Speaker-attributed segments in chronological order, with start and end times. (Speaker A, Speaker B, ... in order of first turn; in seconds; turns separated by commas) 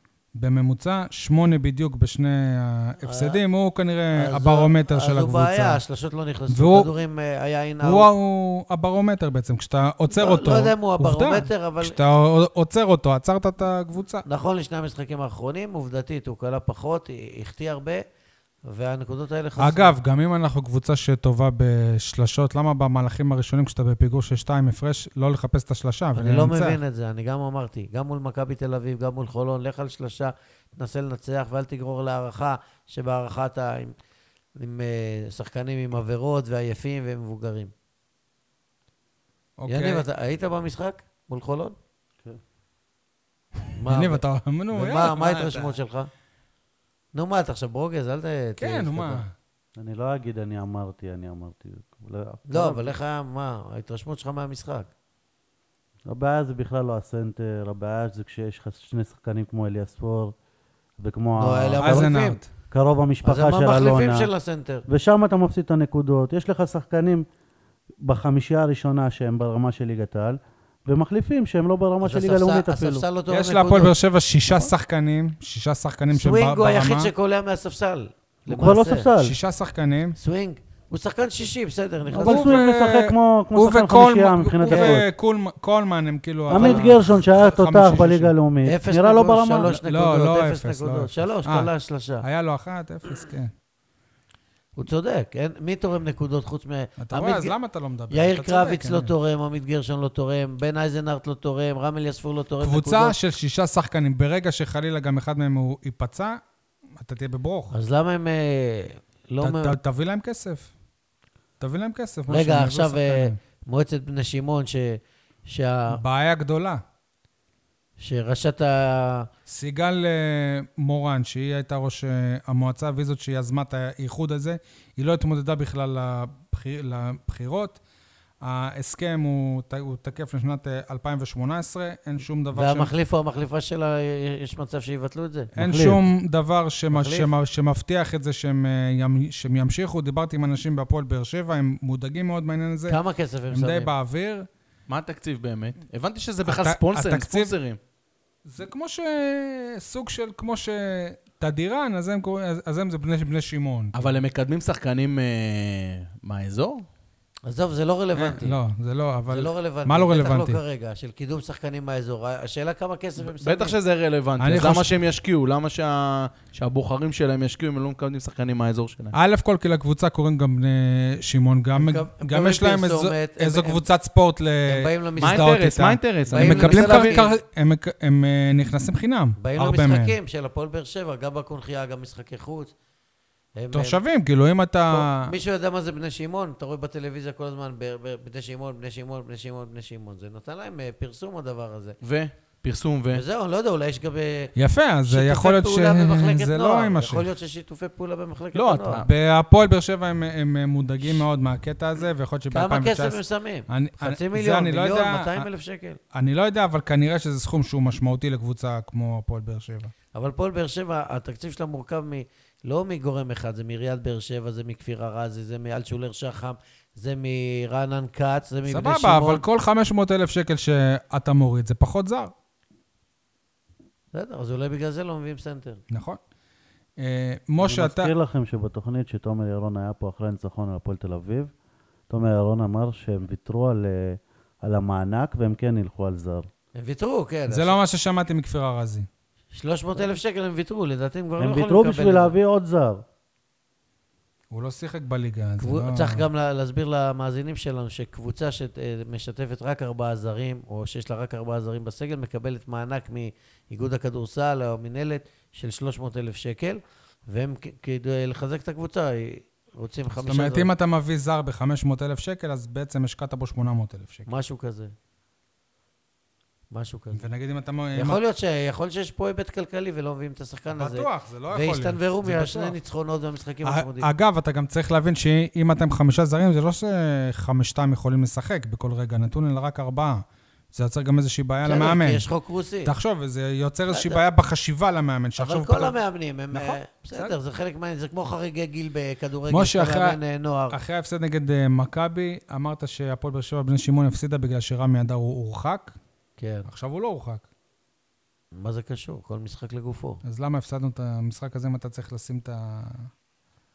Speaker A: 0.4-5.8, Speaker B: 3.0-3.4, Speaker B: 4.1-8.1, Speaker A: 6.5-6.9, Speaker A: 7.8-14.2, Speaker B: 10.1-12.0, Speaker B: 14.3-18.0, Speaker B: 18.7-19.9, Speaker A: 19.6-26.8, Speaker B: 26.1-34.0, Speaker B: 34.6-37.7, Speaker A: 39.6-40.0, Speaker B: 39.7-41.8, Speaker B: 43.8-46.1, Speaker A: 43.9-45.7, Speaker B: 47.1-49.2, Speaker A: 48.6-49.3, Speaker C: 49.8-53.0, Speaker B: 52.5-54.9, Speaker C: 56.1-60.3, Speaker C: 61.0-62.1, Speaker B: 61.4-62.4, Speaker A: 61.8-62.5, Speaker C: 62.7-64.3, Speaker B: 63.2-64.8, Speaker C: 64.9-67.3, Speaker C: 68.0-73.0, Speaker B: 72.0-73.9, Speaker A: 73.3-77.1, Speaker B: 76.1-79.1, Speaker C: 78.5-79.4, Speaker A: 79.2-80.2, Speaker B: 80.2-82.5, Speaker C: 82.1-85.1, Speaker A: 82.2-88.3, Speaker B: 84.7-85.0, Speaker C: 86.5-89.8, Speaker B: 86.5-86.9, Speaker B: 88.6-92.2, Speaker A: 89.7-91.7, Speaker A: 92.2-93.5, Speaker B: 94.8-97.5, Speaker A: 97.0-99.1, Speaker B: 98.1-103.2, Speaker A: 102.6-106.4, Speaker A: 107.0-107.7, Speaker B: 107.7-109.8, Speaker A: 109.4-110.7, Speaker A: 111.6-113.4, Speaker B: 112.3-116.0, Speaker A: 115.9-116.8, Speaker B: 118.0-119.3, Speaker A: 119.5-127.8, Speaker A: 128.4-132.9, Speaker B: 132.5-135.5, Speaker C: 135.6-136.0, Speaker A: 135.6-143.0, Speaker B: 136.9-137.3, Speaker B: 142.9-143.9, Speaker A: 143.5-144.5, Speaker D: 144.9-147.8, Speaker A: 146.4-147.5, Speaker A: 148.5-154.2, Speaker D: 153.9-156.9, Speaker B: 157.5-158.6, Speaker A: 158.2-160.6, Speaker B: 159.3-163.8, Speaker D: 163.2-169.1, Speaker A: 164.4-164.9, Speaker A: 169.1-180.2, Speaker B: 171.8-173.8, Speaker B: 174.7-175.5, Speaker D: 175.2-177.2, Speaker B: 176.3-177.3, Speaker B: 179.4-182.7, Speaker B: 183.6-184.0, Speaker A: 183.7-185.3, Speaker B: 184.9-192.0, Speaker D: 192.0-193.2, Speaker B: 193.1-194.5, Speaker A: 194.6-197.3, Speaker B: 195.1-199.0, Speaker D: 198.5-199.1, Speaker A: 199.0-205.5, Speaker B: 202.5-206.0, Speaker A: 206.1-209.9, Speaker B: 210.1-219.4, Speaker A: 218.7-222.3, Speaker B: 224.1-225.8, Speaker A: 225.9-226.2, Speaker A: 227.0-228.1, Speaker C: 227.6-231.5, Speaker C: 232.1-236.5, Speaker B: 236.8-237.8, Speaker A: 237.5-239.1, Speaker B: 239.5-242.3, Speaker C: 241.4-243.0, Speaker A: 244.5-246.2, Speaker B: 245.6-260.7, Speaker A: 260.2-264.3, Speaker B: 264.3-264.9, Speaker B: 266.7-267.2, Speaker A: 267.1-268.2, Speaker B: 267.9-274.1, Speaker A: 270.7-272.8, Speaker A: 273.6-282.2, Speaker B: 281.6-282.9, Speaker A: 282.9-286.0, Speaker B: 283.9-284.2, Speaker B: 285.4-290.8, Speaker A: 286.5-287.4, Speaker A: 289.5-290.2, Speaker A: 290.7-296.0, Speaker B: 296.4-296.7, Speaker A: 296.7-297.4, Speaker B: 298.5-300.2, Speaker A: 300.2-303.1